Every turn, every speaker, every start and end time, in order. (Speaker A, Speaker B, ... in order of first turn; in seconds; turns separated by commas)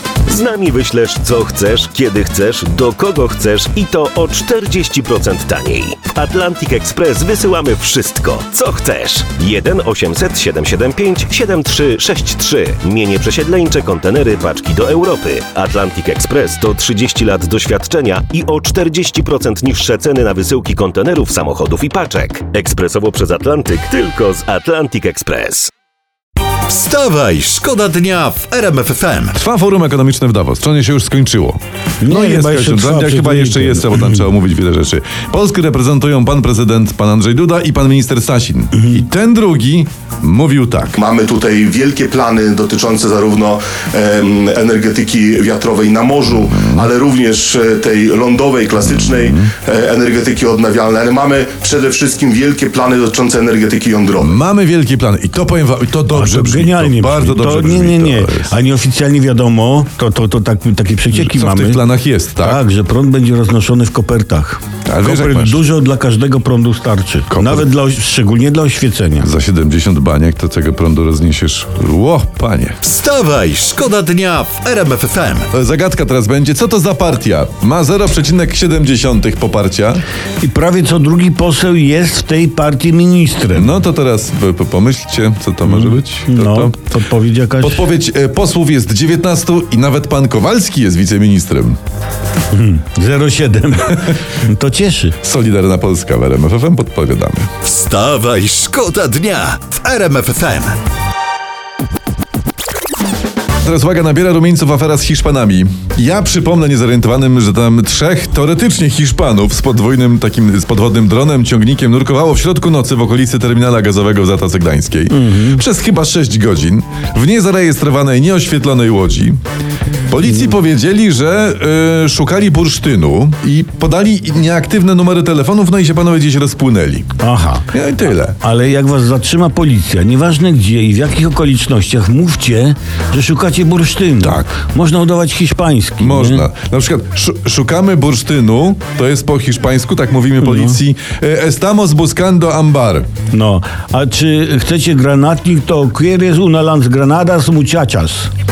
Speaker A: 0.2-25.7, Speaker B: 26.7-29.4, Speaker C: 29.3-41.0, Speaker D: 32.0-34.3, Speaker E: 41.0-54.3, Speaker C: 46.5-46.9, Speaker C: 48.9-49.5, Speaker C: 54.2-58.5, Speaker D: 56.1-61.8, Speaker C: 61.1-62.6, Speaker D: 62.4-69.3, Speaker C: 64.8-65.6, Speaker C: 67.3-67.7, Speaker C: 69.2-72.8, Speaker B: 72.8-75.5, Speaker C: 75.5-80.0, Speaker D: 80.4-83.7, Speaker C: 83.5-86.8, Speaker D: 85.7-87.9, Speaker C: 87.6-91.8, Speaker D: 92.5-95.2, Speaker C: 95.2-97.5, Speaker B: 97.6-100.8, Speaker C: 103.6-119.4, Speaker D: 115.1-115.6, Speaker C: 120.1-127.1, Speaker D: 127.2-127.7, Speaker C: 127.7-128.4, Speaker D: 128.4-136.4, Speaker C: 136.0-143.1, Speaker D: 140.4-140.8, Speaker D: 143.3-148.3